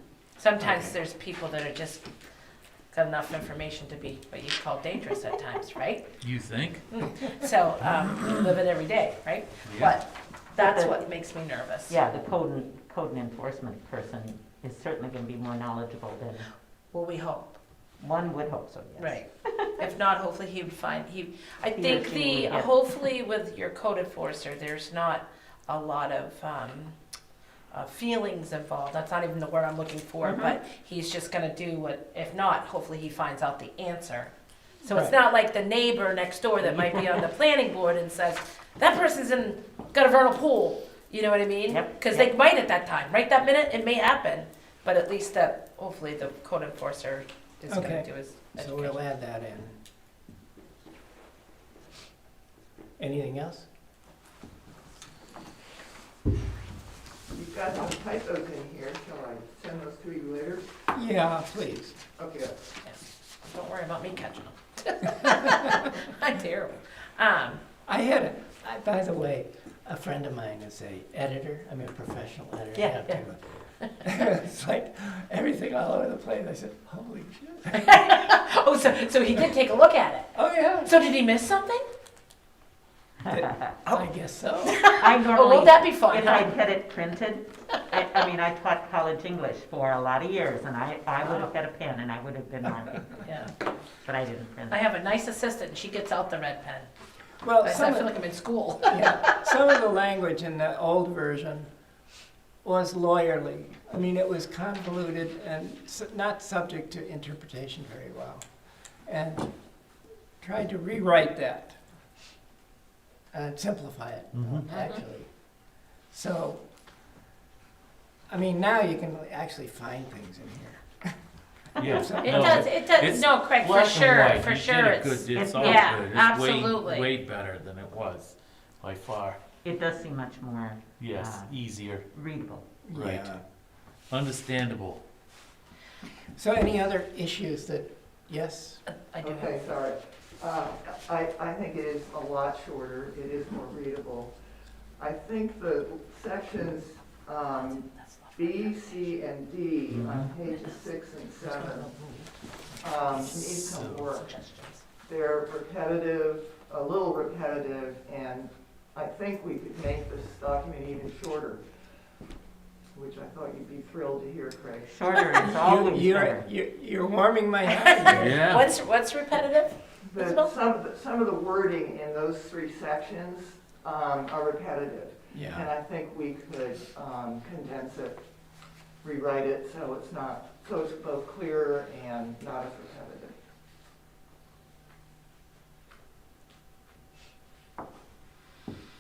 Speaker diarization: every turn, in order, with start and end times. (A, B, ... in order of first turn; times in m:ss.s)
0:00.4-0:02.1 A
0:00.6-0:01.0 B
0:02.9-0:06.1 A
0:06.2-0:06.8 C
0:06.9-0:12.0 A
0:09.6-0:10.0 C
0:10.6-0:11.0 D
0:11.9-0:16.5 D
0:16.9-0:17.6 A
0:18.0-0:19.7 D
0:19.0-0:27.0 A
0:21.8-0:23.0 D
0:27.7-0:34.3 A
0:30.2-0:30.6 D
0:34.8-0:49.0 A
0:34.9-0:35.2 B
0:41.7-0:42.3 D
0:47.7-0:49.8 B
0:53.0-0:53.7 B
0:57.3-1:00.7 E
1:00.9-1:02.0 B
1:02.2-1:02.6 E
1:02.8-1:07.6 A
1:07.9-1:18.3 B
1:12.8-1:13.0 D
1:17.8-1:21.8 A
1:20.4-1:20.9 B
1:23.3-1:24.9 B
1:23.3-1:23.7 D
1:24.8-1:26.5 A
1:25.0-1:33.3 D
1:31.2-1:31.5 A
1:33.2-1:33.5 A
1:34.0-1:34.8 D
1:34.7-1:36.9 A
1:37.4-1:38.2 B
1:37.6-1:39.5 A
1:38.8-1:41.7 B
1:42.6-1:48.4 B
1:49.0-1:49.6 B
1:50.4-1:51.8 B
1:53.3-1:55.3 B
1:54.3-1:54.7 C
1:54.7-1:55.0 A
1:56.1-1:56.6 B
1:58.3-2:01.2 B
2:01.8-2:02.4 D
2:01.8-2:09.4 C
2:01.8-2:02.8 B
2:02.2-2:07.1 A
2:05.3-2:06.1 D
2:09.6-2:11.6 D
2:11.0-2:12.0 C
2:12.1-2:12.6 D
2:12.9-2:13.4 B
2:12.9-2:13.4 C
2:14.1-2:15.0 C
2:16.4-2:18.8 B
2:18.9-2:19.7 A
2:19.2-2:24.4 E
2:25.0-2:31.9 E
2:27.5-2:29.1 A
2:29.9-2:30.3 C
2:30.4-2:30.8 A
2:31.4-2:32.3 A
2:32.8-2:34.3 E
2:33.2-2:34.8 A
2:35.0-2:41.6 E
2:42.9-2:45.5 E
2:44.9-2:46.5 D
2:45.5-2:48.4 B
2:47.7-2:50.5 A
2:48.1-2:48.6 C
2:50.0-2:58.2 E
2:55.3-2:55.7 B
2:59.0-3:03.4 E